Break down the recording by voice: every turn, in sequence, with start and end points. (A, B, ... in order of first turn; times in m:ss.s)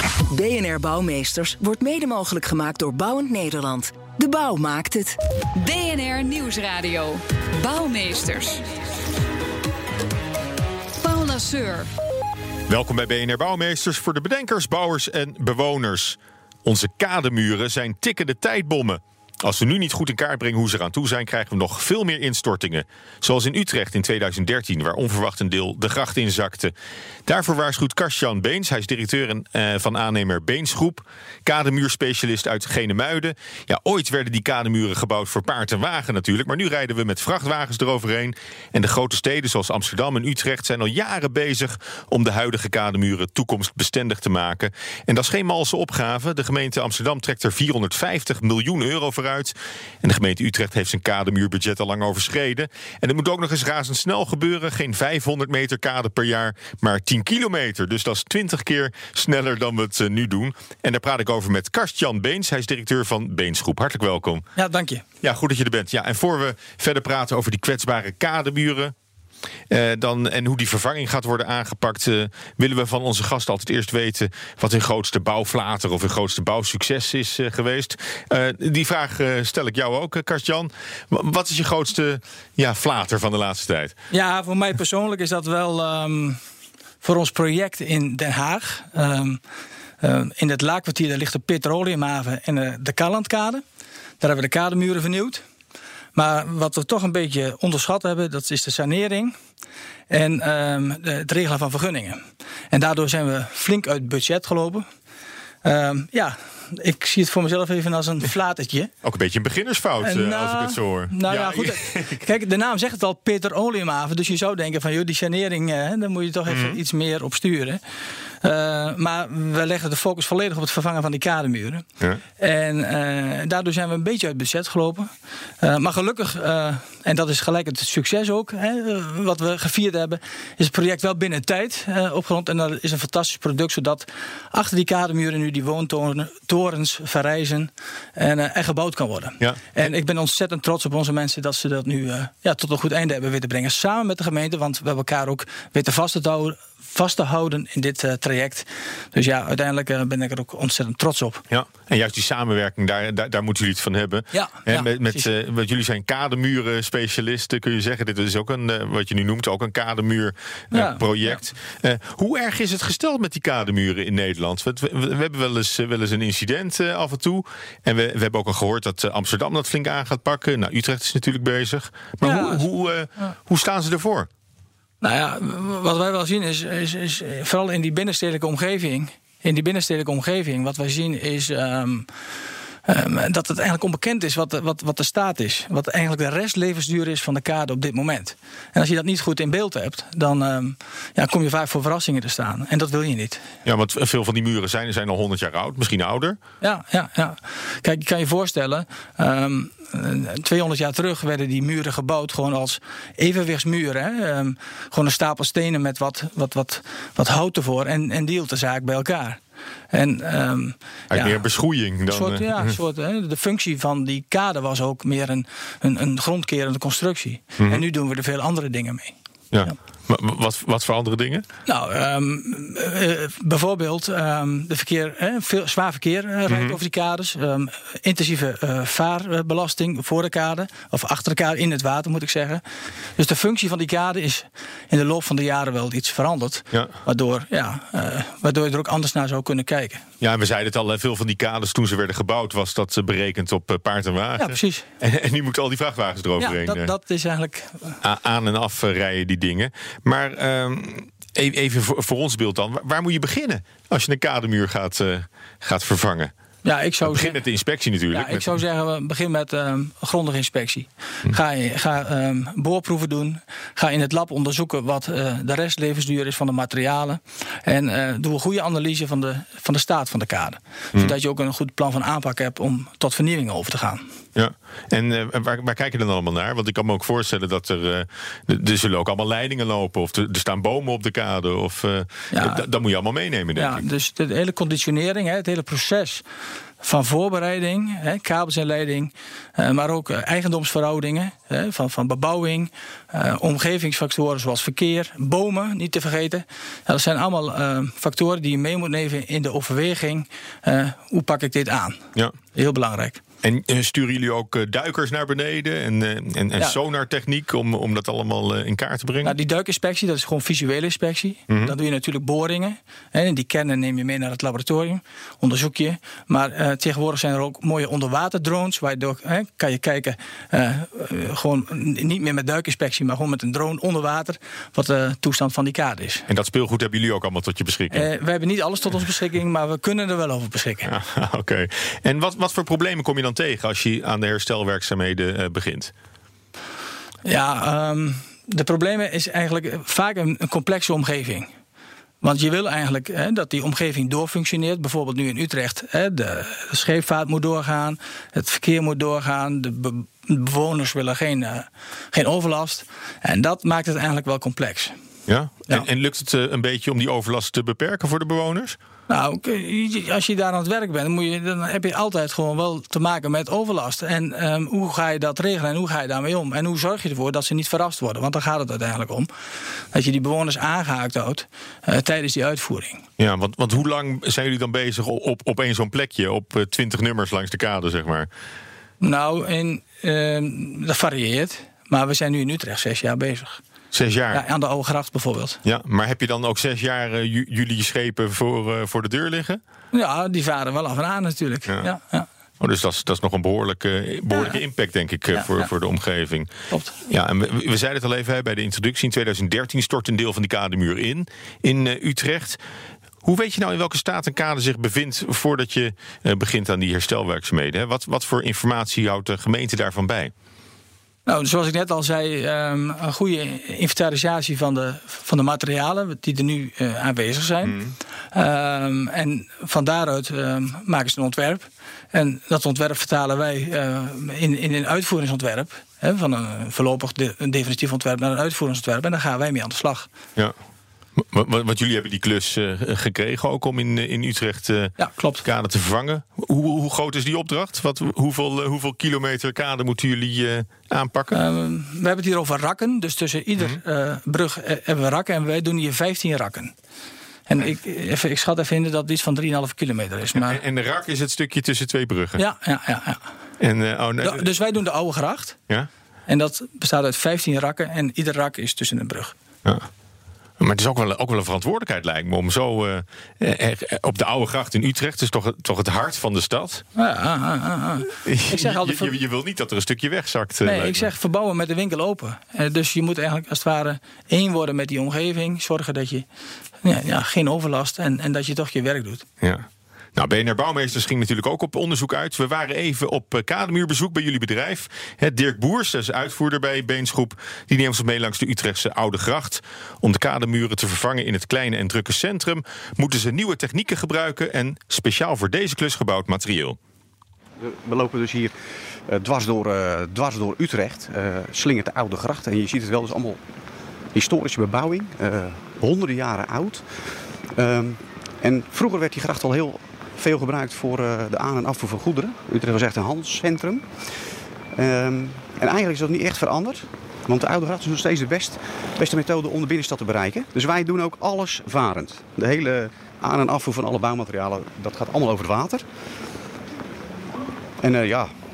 0:00.3-0:05.2 A
0:05.6-0:08.6 B
0:11.0-0:11.9 B
0:12.7-0:26.7 C
0:27.2-1:04.4 C
1:04.6-1:05.0 D
1:05.2-1:08.9 C
1:09.7-1:23.9 C
1:24.1-1:26.4 D
1:27.0-1:29.4 D
1:30.0-1:33.6 D
1:34.2-1:35.4 D
1:36.1-1:39.3 D
1:40.1-1:44.8 D
1:45.6-1:48.9 D
1:49.0-1:52.3 C
1:50.0-1:57.8 D
1:56.5-1:56.8 C
1:58.4-2:01.8 D
2:02.4-2:05.1 D
2:05.6-2:31.4 D
2:19.4-2:19.9 C
2:31.5-2:54.3 C
2:34.3-2:35.3 D
2:40.7-2:41.4 D
2:52.2-2:52.6 D
2:55.0-3:02.1 D
3:02.8-3:13.4 D
3:13.6-3:16.4 C
3:16.6-3:31.4 D
3:31.1-3:32.7 C
3:32.1-3:39.1 D
3:37.6-3:37.8 C
3:39.5-3:41.4 C
3:41.6-3:52.6 D
3:46.5-3:46.8 C
3:53.2-4:00.0 D
4:00.2-4:06.9 C
4:04.4-4:04.8 D
4:06.4-4:08.0 D
4:08.0-4:16.3 C
4:16.6-4:17.4 D
4:17.0-4:18.6 C
4:18.1-4:34.0 D
4:34.4-4:43.8 C
4:42.3-4:42.6 D
4:43.6-4:46.2 D
4:46.8-5:03.2 D
5:03.4-5:09.4 C
5:09.2-5:26.2 D
5:11.5-5:11.7 C
5:26.3-5:28.1 C
5:27.9-5:30.9 D
5:30.8-5:35.9 C
5:37.2-5:41.5 D
5:42.2-5:54.9 D
5:55.3-5:58.8 C
5:59.1-6:09.3 D
6:09.9-6:13.0 D
6:13.2-6:18.3 C
6:19.0-6:23.6 D
6:23.9-6:24.4 C
6:24.3-6:25.6 D
6:25.6-6:29.6 C
6:29.9-6:32.3 D
6:32.6-6:36.5 C
6:34.3-6:34.6 D
6:35.3-6:35.7 D
6:37.1-6:42.6 C
6:43.2-6:50.3 C
6:51.2-6:57.8 D
6:57.6-6:57.9 C
6:58.3-7:10.1 D
7:11.2-7:21.4 C
7:15.0-7:15.4 D
7:21.3-7:26.7 D
7:27.5-7:30.6 D
7:30.3-7:32.4 C
7:32.4-7:33.3 D
7:33.6-7:34.5 C
7:34.2-7:35.6 D
7:36.3-7:39.3 D
7:40.6-7:46.8 C
7:47.0-7:49.1 D
7:48.2-7:51.1 C
7:50.6-7:56.2 D
7:56.8-7:59.2 D
7:59.4-8:16.8 C
8:17.6-8:18.5 E
8:19.1-8:23.4 E
8:24.1-8:26.8 E
8:27.6-8:33.8 E
8:34.8-8:45.8 E
8:47.8-8:48.3 E